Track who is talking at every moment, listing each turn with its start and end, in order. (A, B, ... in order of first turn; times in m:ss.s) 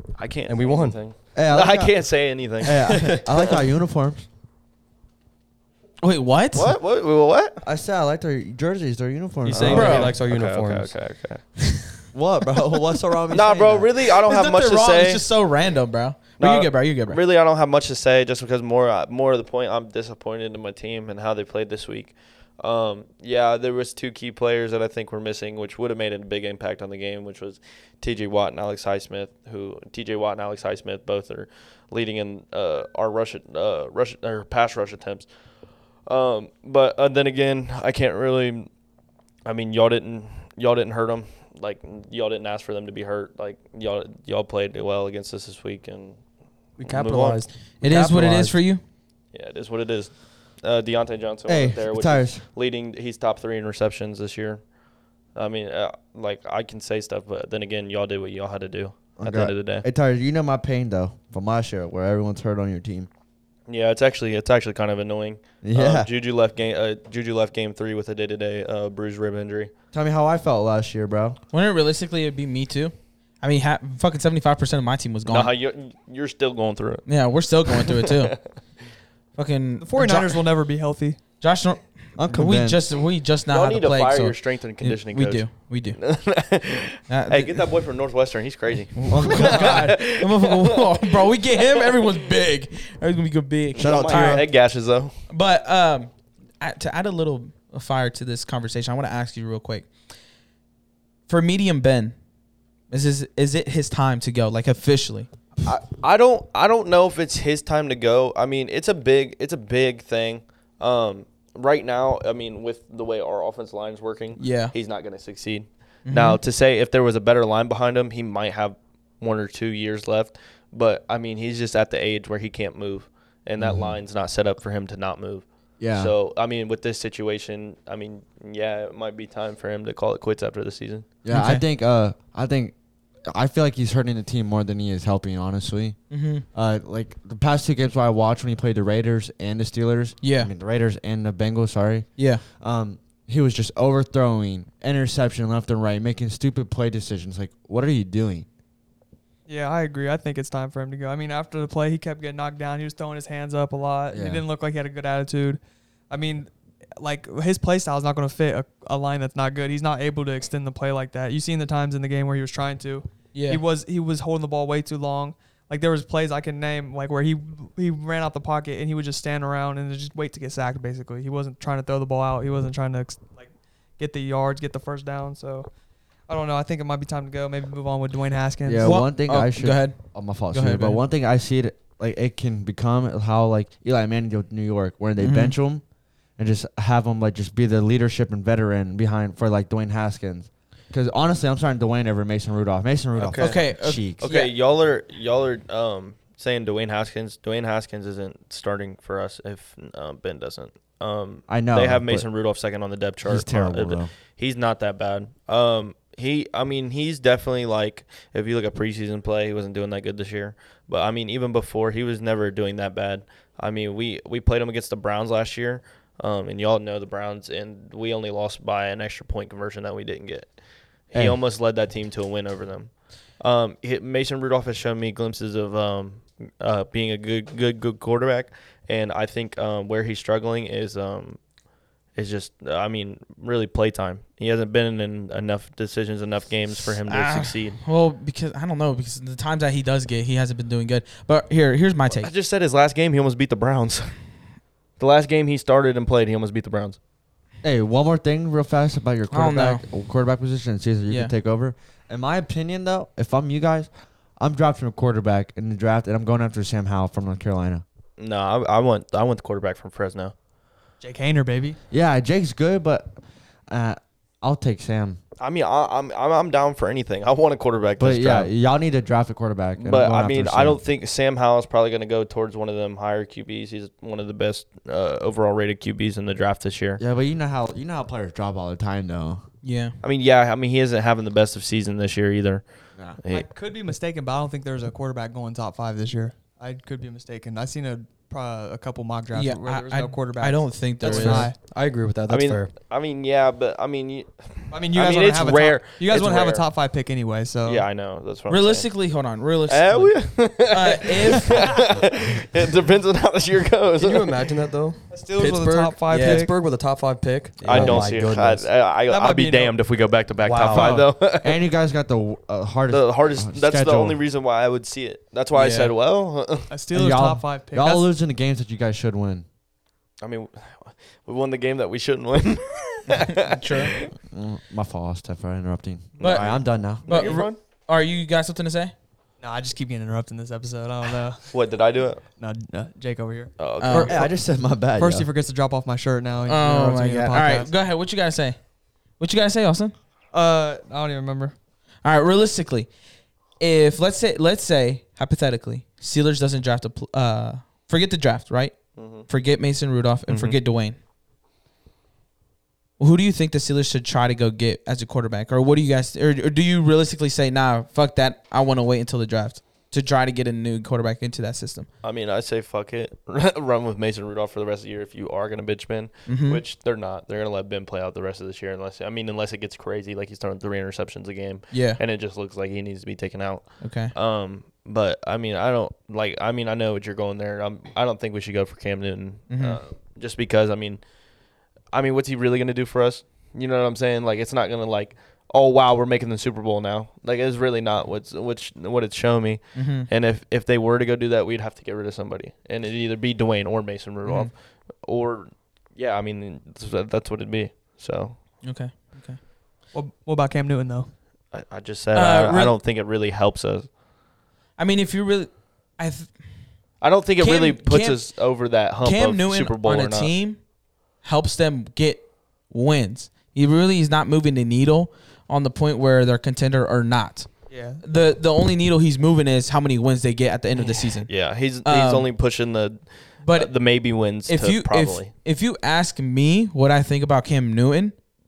0:00.2-0:03.6 A
0:00.4-0:01.0 B
0:01.3-0:04.2 C
0:06.0-0:06.7 D
0:06.5-0:07.6 A
0:07.6-0:10.2 C
0:09.4-0:10.9 B
0:09.5-0:11.4 A
0:09.7-0:10.1 D
0:12.1-0:13.9 C
0:13.3-0:15.2 A
0:14.2-0:17.2 D
0:16.4-0:35.3 A
0:36.0-0:38.7 A
0:39.4-0:46.2 A
0:46.8-0:48.6 B
0:46.8-0:47.4 A
0:47.8-0:48.8 D
0:49.3-0:54.6 A
0:51.4-0:52.4 C
0:55.3-0:59.8 A
0:59.2-1:03.1 C
1:03.7-1:09.7 A
1:05.6-1:06.1 C
1:09.9-1:11.4 C
1:11.5-1:15.5 D
1:15.3-1:17.1 A
1:17.0-1:18.4 D
1:17.7-1:18.4 A
1:19.4-1:20.4 D
1:19.8-1:21.2 E
1:21.4-1:26.0 D
1:22.2-1:22.8 C
1:23.5-1:31.1 A
1:27.1-1:27.6 D
1:29.0-1:29.9 C
1:29.2-1:34.5 D
1:33.8-1:34.5 C
1:33.8-1:35.1 A
1:35.3-1:39.9 D
1:41.3-1:42.1 D
1:42.9-1:45.3 D
1:45.6-2:11.1 A
1:54.4-1:54.7 D
1:56.0-1:56.4 D
2:03.6-2:04.0 C
2:05.8-2:06.1 C
2:11.2-2:12.7 C
2:11.3-2:11.6 D
2:13.3-2:16.0 C
2:16.1-2:16.4 D
2:16.5-2:28.4 C
2:20.2-2:20.5 D
2:22.2-2:22.4 D
2:29.5-2:55.7 E
2:34.1-2:34.4 C
2:43.3-2:43.6 D
2:56.3-2:59.0 E
2:58.6-3:05.8 C
2:58.8-3:01.0 D
3:05.2-3:05.6 D
3:06.4-3:14.2 C
3:13.2-3:40.5 A
3:13.3-3:14.5 D
3:21.5-3:22.2 C
3:23.2-3:24.1 C
3:41.1-3:51.4 A
3:52.1-3:57.8 A
3:57.0-4:02.3 D
4:02.1-4:04.2 A
4:05.0-4:07.0 A
4:07.6-4:17.8 C
4:09.3-4:09.8 D
4:18.2-4:20.3 A
4:21.0-4:21.8 E
4:21.9-4:25.2 C
4:25.4-4:28.5 A
4:28.0-4:30.8 C
4:29.8-4:37.0 A
4:37.0-4:39.4 C
4:39.6-4:39.9 D
4:40.0-4:43.5 A
4:43.3-4:51.6 E
4:49.3-4:51.5 D
4:51.6-4:52.7 B
4:52.3-4:56.6 A
4:54.7-4:57.9 E
4:57.6-4:58.9 A
4:58.5-5:01.8 D
4:59.7-5:04.5 A
5:04.0-5:08.7 B
5:05.1-5:06.6 E
5:06.1-5:06.4 D
5:07.6-5:11.6 A
5:07.7-5:08.1 C
5:09.0-5:09.8 E
5:10.4-5:11.0 B
5:10.6-5:14.2 C
5:12.9-5:16.7 A
5:15.5-5:15.9 D
5:16.7-5:18.0 E
5:16.9-5:19.4 C
5:20.2-5:24.1 A
5:23.1-5:23.9 D
5:24.2-5:27.3 C
5:26.2-5:27.6 A
5:26.2-5:28.9 D
5:29.4-5:31.6 E
5:31.5-5:32.2 A
5:32.4-5:34.3 E
5:33.6-5:34.2 A
5:33.8-5:34.2 D
5:33.9-5:35.3 C
5:34.8-5:37.7 E
5:36.5-5:38.6 D
5:39.2-5:39.9 D
5:40.3-5:41.5 E
5:42.0-5:42.9 D
5:43.6-5:51.0 D
5:49.0-5:49.3 A
5:50.3-5:50.6 A
5:53.0-6:01.9 D
6:02.0-6:21.0 A
6:06.3-6:06.6 D
6:11.7-6:12.0 D
6:13.8-6:14.1 D
6:19.5-6:19.8 D
6:21.9-6:38.4 A
6:29.7-6:30.1 D
6:34.2-6:34.5 D
6:38.6-6:39.4 D
6:39.9-6:41.1 E
6:41.5-6:43.9 A
6:42.1-6:42.7 D
6:44.8-6:46.3 D
6:47.0-6:50.3 A
6:47.4-6:48.3 D
6:49.0-6:50.6 D
6:51.2-7:02.3 D
6:57.7-6:58.0 E
7:01.2-7:05.3 A
7:03.4-7:08.2 D